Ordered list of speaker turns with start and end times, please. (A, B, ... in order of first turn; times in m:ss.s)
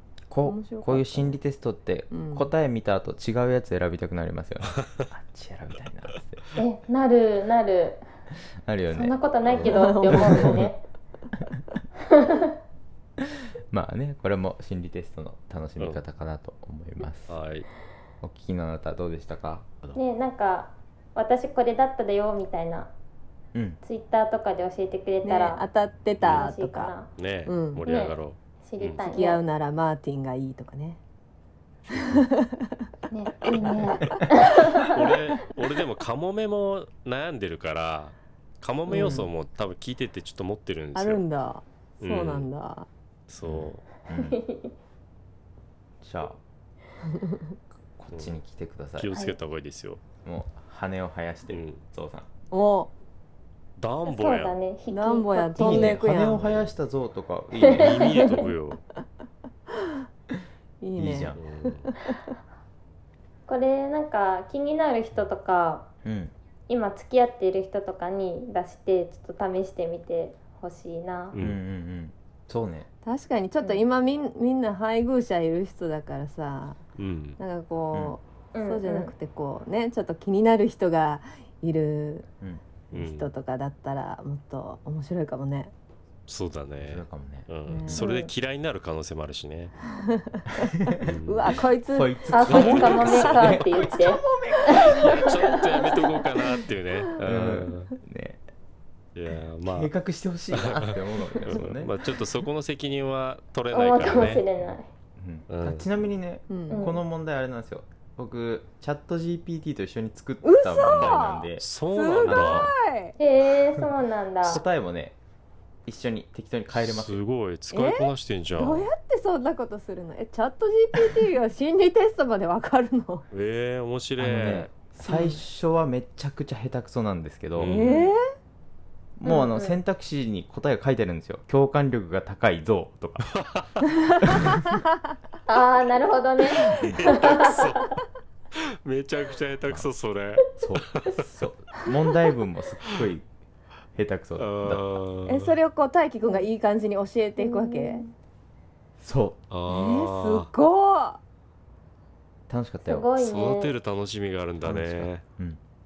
0:00.3-0:06.4 A
0:00.4-0:01.4 B
0:02.1-0:02.5 B
0:06.6-0:08.0 C
0:08.6-0:09.1 A
0:08.9-0:10.8 C
0:09.5-0:09.7 D
0:09.6-0:10.6 B
0:10.1-0:10.5 A
0:12.1-0:12.5 C
0:13.2-0:17.4 A
0:17.3-0:17.7 D
0:18.2-0:20.0 A
0:19.9-0:22.9 C
0:23.8-0:25.6 C
0:25.2-0:26.9 B
0:26.2-0:26.5 D
0:26.2-0:27.1 C
0:27.1-0:29.1 D
0:27.4-0:27.8 B
0:27.8-0:29.4 C
0:29.0-0:31.0 B
0:31.9-0:32.8 B
0:33.1-0:35.1 C
0:33.4-0:34.2 B
0:34.8-0:41.2 D
0:38.9-0:39.3 B
0:40.9-0:42.9 B
0:42.0-0:42.5 D
0:43.3-0:43.8 D
0:43.4-0:44.4 A
0:44.2-0:44.7 C
0:46.0-0:46.4 A
0:47.1-0:47.5 B
0:48.0-0:49.1 A
0:48.1-0:48.4 D
0:49.0-0:50.0 D
0:50.2-0:52.3 A
0:51.5-0:51.8 D
0:52.5-0:52.9 B
0:53.8-0:54.6 D
0:54.0-0:56.0 C
0:54.9-0:56.6 B
0:55.6-0:58.2 A
0:57.6-0:58.3 C
0:57.7-0:58.8 D
1:00.8-1:02.1 B
1:01.0-1:01.4 A
1:01.4-1:01.9 D
1:03.5-1:05.9 C
1:06.0-1:06.3 A
1:06.7-1:11.4 C
1:11.3-1:11.6 D
1:11.3-1:12.9 A
1:13.0-1:16.8 B
1:17.0-1:17.4 D
1:17.4-1:22.3 B
1:18.5-1:19.1 C
1:22.9-1:25.7 B
1:22.9-1:23.3 D
1:26.3-1:29.7 D
1:26.8-1:28.0 A
1:27.6-1:28.1 B
1:28.0-1:28.3 C
1:29.9-1:32.9 B
1:30.6-1:31.1 A
1:31.0-1:31.6 D
1:31.8-1:34.9 A
1:32.3-1:35.2 C
1:32.4-1:33.5 D
1:33.8-1:36.6 B
1:34.7-1:37.9 D
1:37.2-1:38.4 A
1:39.1-1:39.9 D
1:39.6-1:41.9 A
1:40.5-1:44.4 D
1:43.7-1:44.9 C
1:45.2-1:51.7 A
1:45.5-1:45.9 D
1:46.5-1:46.9 B
1:46.7-1:47.0 C
1:50.4-1:53.2 B
1:50.9-1:52.7 D
1:52.2-1:52.7 A
1:53.2-1:54.6 C
1:54.4-1:55.1 A
1:55.8-1:57.2 A
1:56.7-1:58.9 D
1:57.7-2:03.2 B
2:03.3-2:04.7 D
2:04.2-2:07.8 A
2:05.0-2:05.4 B
2:07.6-2:08.1 D
2:07.6-2:08.2 B
2:09.2-2:13.3 A
2:09.2-2:09.8 C
2:13.3-2:13.8 D
2:14.1-2:14.8 B
2:14.2-2:14.6 A
2:15.4-2:17.7 C
2:16.6-2:17.9 D
2:18.6-2:21.2 D
2:20.6-2:23.2 A
2:23.9-2:24.8 A
2:24.4-2:25.6 D
2:25.2-2:28.0 B
2:27.4-2:28.1 C
2:29.0-2:29.4 A
2:29.5-2:30.5 D
2:29.7-2:31.2 B
2:32.5-2:33.1 A
2:32.8-2:33.7 C
2:33.2-2:35.2 D
2:34.6-2:35.6 A